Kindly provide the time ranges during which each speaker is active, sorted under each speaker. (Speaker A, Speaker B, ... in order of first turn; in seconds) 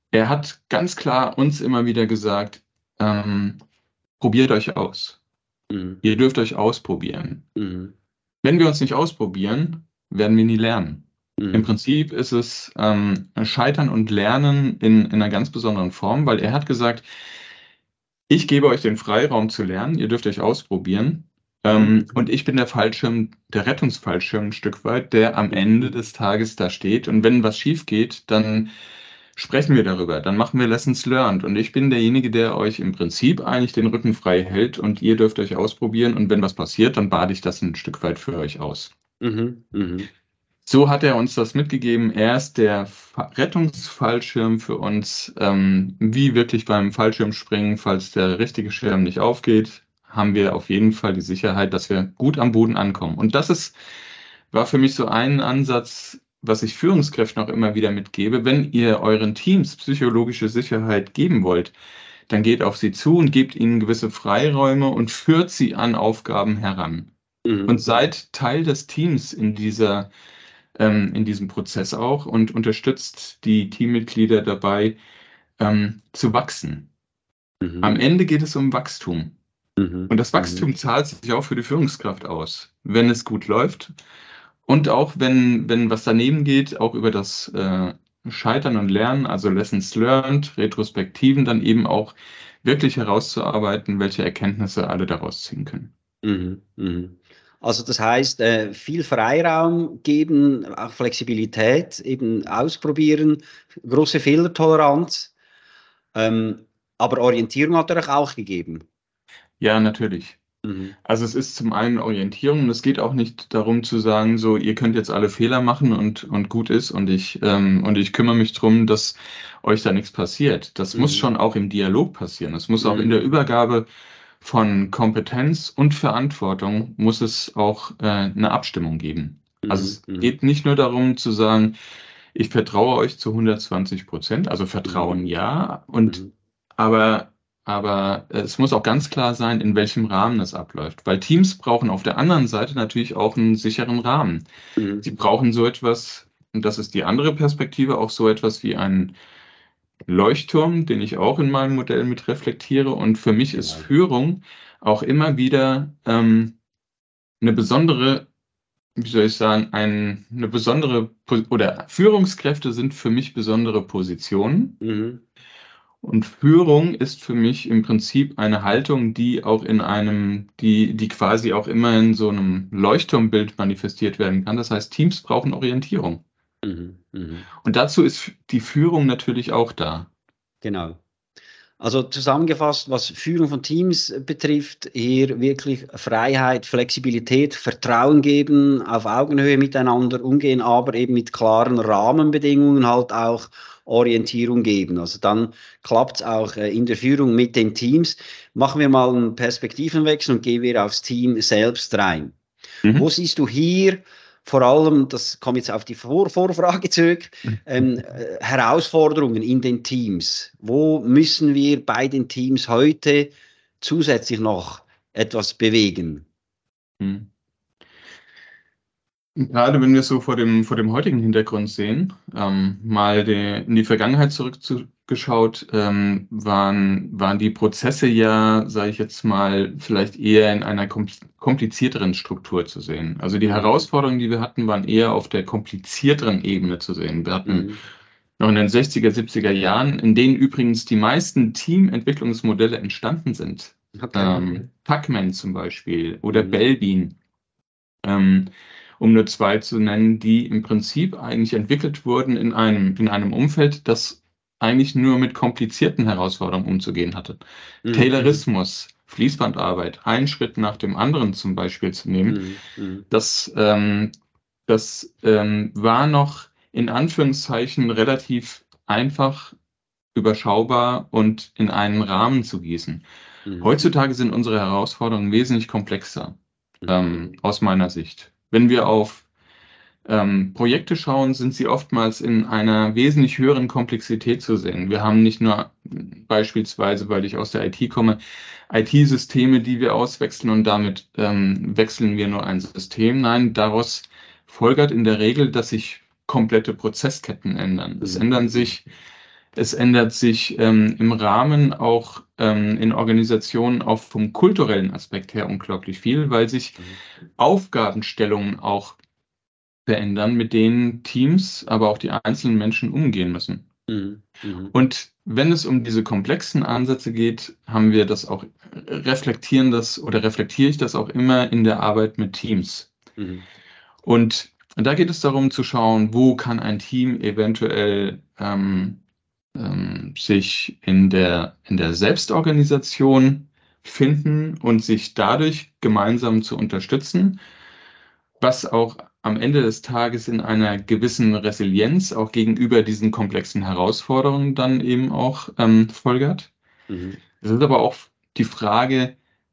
Speaker A: 0.1-3.6, 4.2-5.2, 6.0-7.4, 8.4-17.1, 18.3-28.7, 29.4-38.9, 40.7-53.8, 54.5-61.8, 62.3-67.1, 67.7-70.1, 70.8-75.0, 75.6-76.9, 77.8-79.4, 80.1-83.9, 84.7-95.9, 109.6-110.4, 111.0-123.9, 124.4-131.8, 132.3-136.2, 136.8-144.4, 145.0-149.2, 150.1-156.6, 157.4-158.3, 159.0-164.8, 166.0-176.2, 177.6-180.1, 217.0-217.3, 219.4-237.7, 238.4-247.2, 248.0-262.4, 263.1-264.1, 264.7-269.6, 270.1-273.1, 273.6-279.3, 280.1-288.2, 288.7-298.8, 299.6-306.8, 307.4-309.0, 309.9-313.7, 314.7-322.9, 324.0-329.0, 329.6-337.4, 338.4-346.5, 347.4-349.2
Speaker B: 5.7-6.0, 7.6-7.9, 11.4-11.7, 39.2-40.1, 67.5-67.8, 77.6-78.0, 79.8-80.7, 96.2-105.3, 106.2-108.8, 110.6-111.0, 120.9-121.3, 122.8-123.1, 129.6-130.3, 134.9-135.2, 136.1-136.3, 144.8-145.1, 153.6-153.9, 164.8-165.2, 176.6-177.5, 180.6-181.0, 181.8-202.4, 202.9-216.3, 233.4-233.8, 237.4-237.8, 243.9-244.5, 246.3-246.6, 257.9-258.4, 262.3-263.1, 273.5-273.7, 276.8-277.1, 298.0-298.4, 313.9-314.7, 323.2-323.5, 346.9-347.2